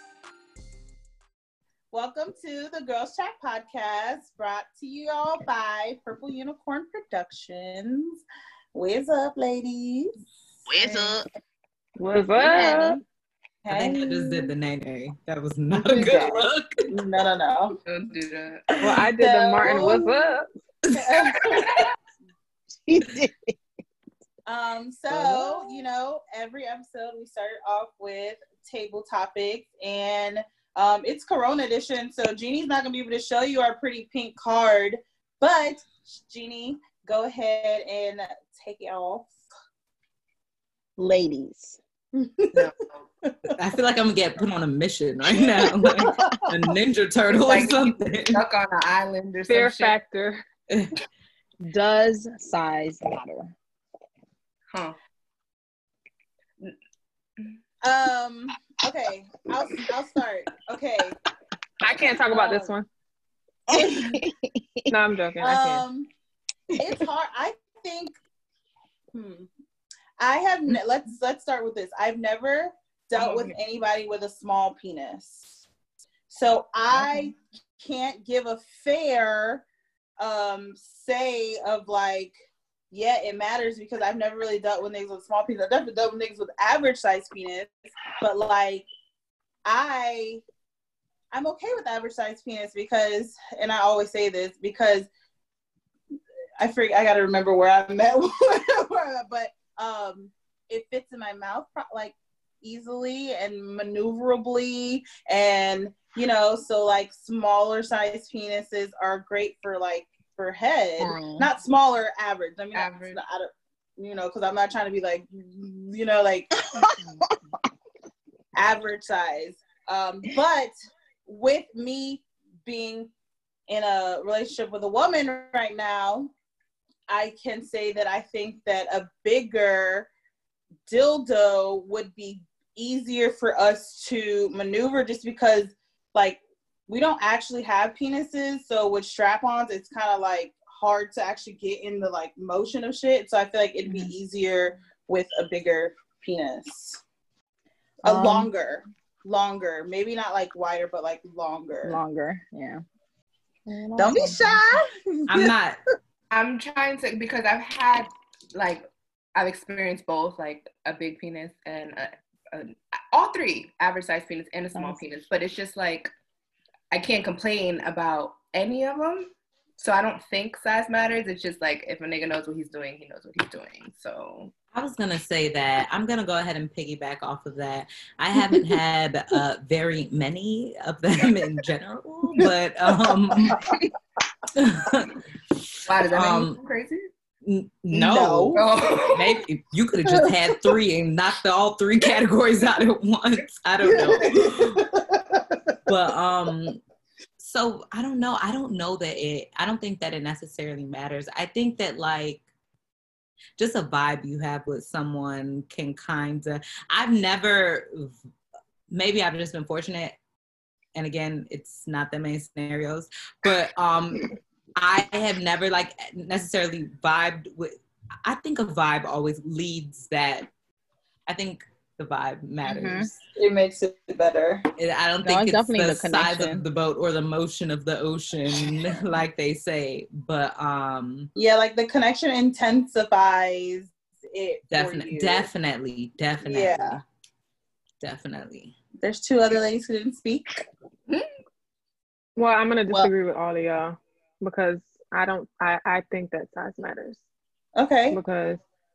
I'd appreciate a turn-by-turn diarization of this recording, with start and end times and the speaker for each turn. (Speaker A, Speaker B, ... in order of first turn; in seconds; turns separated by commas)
Speaker A: 1.9-8.2, Speaker A: 8.7-10.2, Speaker B: 10.7-11.3, Speaker A: 10.8-11.2, Speaker C: 12.0-13.0, Speaker A: 12.3-13.0, Speaker B: 12.5-13.0, Speaker A: 13.7-14.5, Speaker D: 13.7-16.7, Speaker B: 15.8-16.4, Speaker A: 15.9-17.8, Speaker E: 17.9-18.8, Speaker C: 18.8-20.5, Speaker A: 19.1-20.2, Speaker D: 20.9-21.8, Speaker A: 20.9-21.8, Speaker B: 22.8-23.6, Speaker A: 24.5-39.4, Speaker B: 25.1-25.6, Speaker B: 41.0-41.8, Speaker A: 42.1-42.6, Speaker E: 42.5-43.1, Speaker D: 43.6-48.4, Speaker A: 45.6-46.5, Speaker E: 47.3-50.0, Speaker C: 49.5-50.4, Speaker B: 51.6-53.5, Speaker E: 54.7-55.0, Speaker A: 57.8-61.2, Speaker C: 61.8-62.9, Speaker A: 61.9-62.7, Speaker B: 63.7-64.9, Speaker A: 63.7-64.2, Speaker C: 64.9-65.8, Speaker A: 65.4-66.1, Speaker A: 66.8-68.2, Speaker A: 69.1-69.5, Speaker A: 70.2-75.6, Speaker E: 73.2-73.5, Speaker A: 76.3-79.7, Speaker A: 80.2-82.3, Speaker A: 82.9-88.9, Speaker A: 89.7-90.4, Speaker A: 91.3-95.1, Speaker A: 96.6-116.6, Speaker B: 111.0-111.5, Speaker E: 112.7-113.2, Speaker B: 116.8-117.4, Speaker A: 118.5-120.7, Speaker A: 121.2-123.1, Speaker A: 123.7-126.3, Speaker A: 127.1-130.1, Speaker A: 130.9-147.0, Speaker B: 143.8-144.1, Speaker A: 148.0-152.0, Speaker B: 148.1-148.5, Speaker B: 151.8-152.8, Speaker B: 153.7-154.6, Speaker A: 154.0-155.5, Speaker D: 155.3-155.8, Speaker E: 156.3-158.8, Speaker E: 159.3-166.1, Speaker B: 164.8-165.1, Speaker E: 166.9-174.5, Speaker D: 174.7-183.6, Speaker D: 184.5-185.2, Speaker E: 185.9-187.1, Speaker D: 186.1-186.6, Speaker D: 187.4-194.8, Speaker A: 187.9-188.6, Speaker E: 188.5-189.4, Speaker A: 193.8-195.6, Speaker D: 195.9-196.8, Speaker D: 197.4-202.4, Speaker D: 203.6-208.2, Speaker D: 208.9-210.2, Speaker D: 210.9-220.5, Speaker D: 221.3-223.2, Speaker A: 222.7-224.7, Speaker D: 224.8-231.3, Speaker B: 225.2-226.7, Speaker A: 231.3-235.5, Speaker D: 234.7-237.0, Speaker A: 236.4-237.0, Speaker D: 238.0-238.7, Speaker A: 239.0-240.7, Speaker C: 242.4-247.2, Speaker A: 247.8-248.2, Speaker C: 248.1-248.6